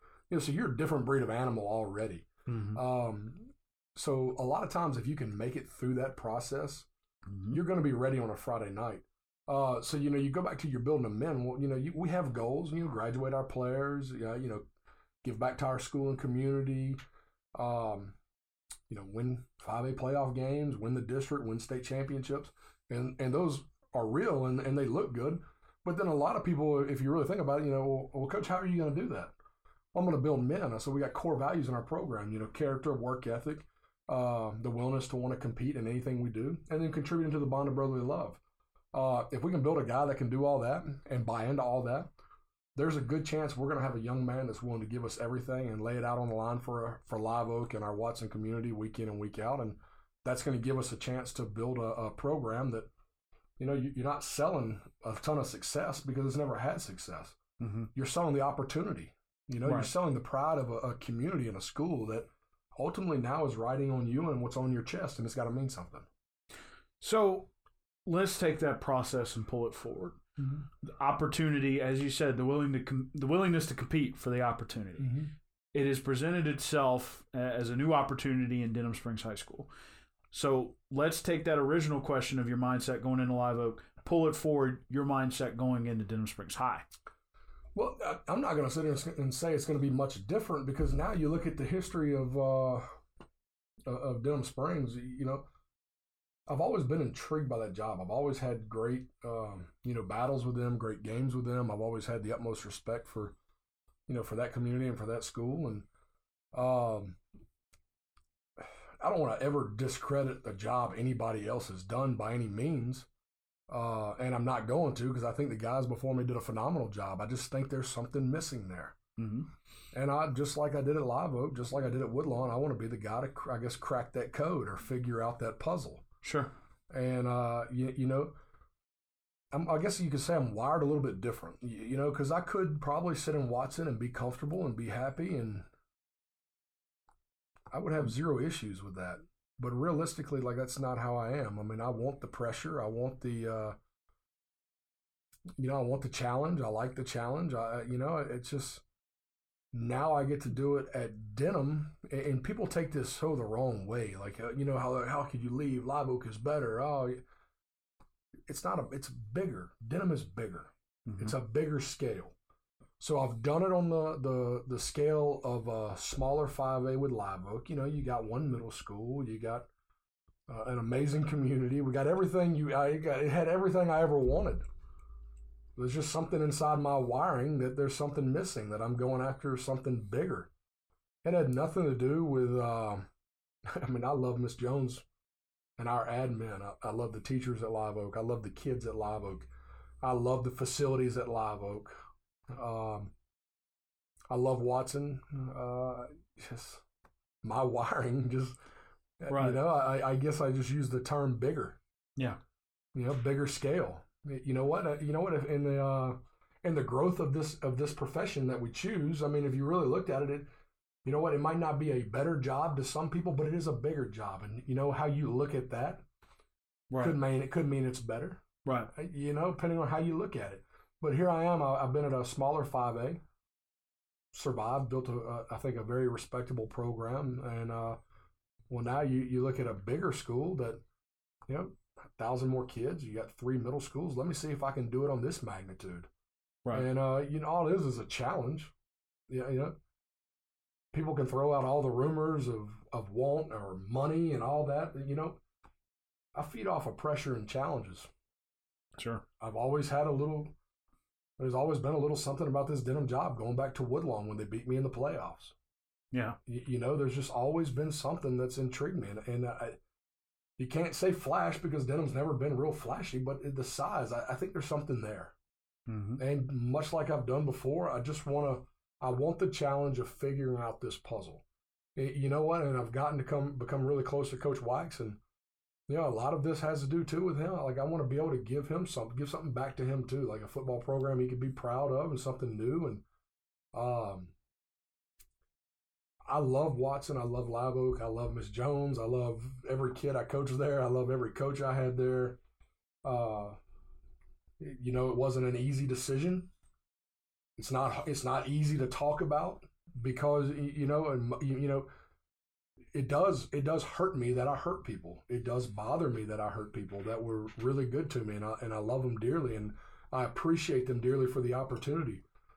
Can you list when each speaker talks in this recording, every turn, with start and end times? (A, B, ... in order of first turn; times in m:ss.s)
0:00.3-0:06.9 A
0:02.5-0:02.8 B
0:07.3-0:07.6 B
0:07.5-0:14.7 A
0:15.2-0:17.0 A
0:17.6-0:18.2 A
0:18.9-0:29.3 A
0:29.9-0:38.4 A
0:38.9-0:42.1 A
0:42.8-0:52.9 A
0:53.6-0:57.4 A
0:57.6-0:57.9 B
0:57.9-1:06.1 A
0:59.6-0:59.9 B
1:07.0-1:07.5 B
1:08.1-1:10.2 B
1:10.8-1:15.1 B
1:15.0-1:15.3 A
1:15.7-1:19.7 B
1:20.3-1:26.9 B
1:27.8-1:33.0 A
1:33.9-1:35.5 A
1:36.5-1:43.4 A
1:44.1-1:45.9 A
1:46.5-1:47.2 A
1:49.0-1:53.1 A
1:53.7-1:59.0 A
1:59.2-1:59.5 B
1:59.9-2:06.0 A
2:06.2-2:06.5 B
2:06.9-2:08.4 A
2:09.5-2:15.7 A
2:17.7-2:23.8 A
2:25.6-2:28.8 A
2:29.7-2:37.2 A
2:38.5-2:42.3 A
2:41.1-2:41.3 B
2:43.0-2:49.7 A
2:50.5-2:54.6 A
2:55.8-3:00.5 A
3:01.2-3:03.1 A
3:03.7-3:05.0 A
3:05.8-3:09.5 A
3:10.0-3:12.0 A
3:12.5-3:13.1 A
3:14.3-3:16.8 A
3:17.4-3:18.6 A
3:19.2-3:21.8 A
3:19.3-3:19.6 B
3:22.9-3:30.5 A
3:31.0-3:36.0 A
3:37.0-3:43.2 A
3:38.6-3:38.9 B
3:44.3-3:48.0 A
3:48.7-3:50.8 A
3:51.5-3:56.1 A
3:56.7-3:58.7 A
3:59.3-3:59.8 A
4:00.9-4:05.4 A
4:06.3-4:08.1 A
4:09.0-4:09.2 B
4:09.4-4:10.5 A
4:11.4-4:15.5 A
4:16.1-4:16.4 B
4:16.5-4:19.8 A
4:20.6-4:25.3 A
4:25.9-4:26.2 B
4:26.2-4:31.4 A
4:32.0-4:35.2 A
4:35.9-4:43.0 A
4:43.7-4:44.3 A
4:46.3-4:52.4 A
4:53.0-4:53.6 A
4:54.6-4:56.5 A
4:57.6-5:01.9 A
5:02.9-5:12.2 A